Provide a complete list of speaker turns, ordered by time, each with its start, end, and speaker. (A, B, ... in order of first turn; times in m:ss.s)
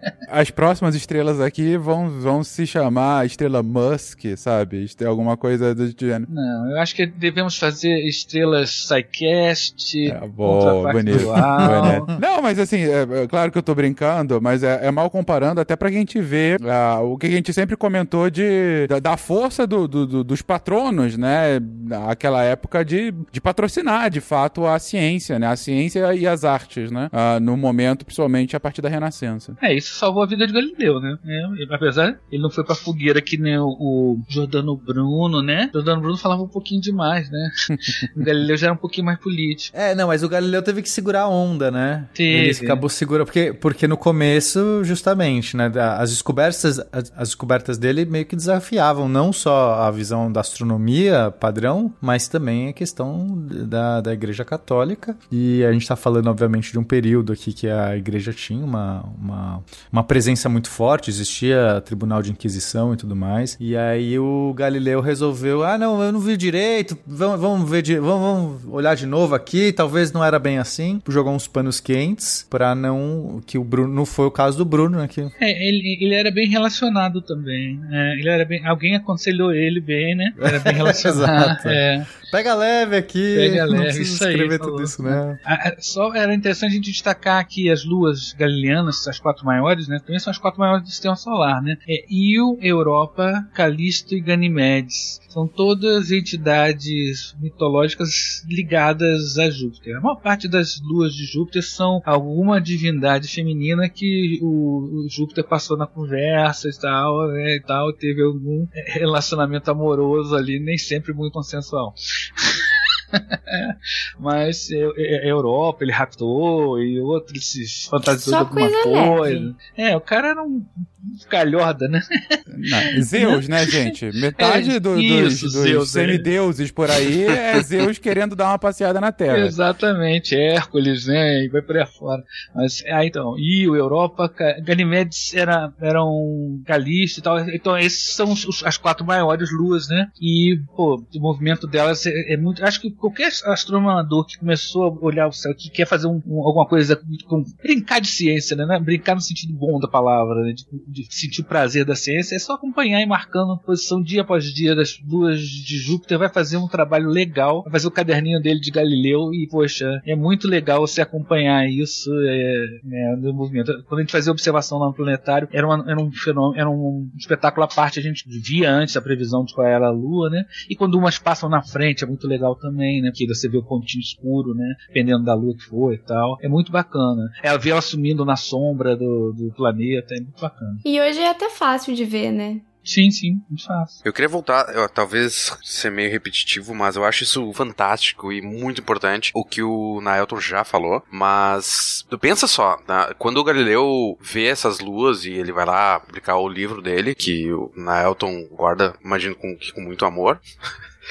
0:00.3-0:06.3 A
0:06.3-0:12.1 B
0:10.0-0:29.6 A
0:11.1-0:12.0 C
0:29.6-0:39.7 B
0:39.7-1:15.3 C
0:42.2-0:42.8 B
1:15.4-1:22.1 B
1:20.5-1:25.4 C
1:23.3-2:02.4 B
1:58.1-1:59.5 D
2:02.6-2:09.5 A
2:03.1-2:03.4 B
2:04.4-2:06.3 B
2:09.3-3:00.8 B
3:00.8-3:02.6 D
3:02.8-3:04.0 B
3:04.0-3:20.4 E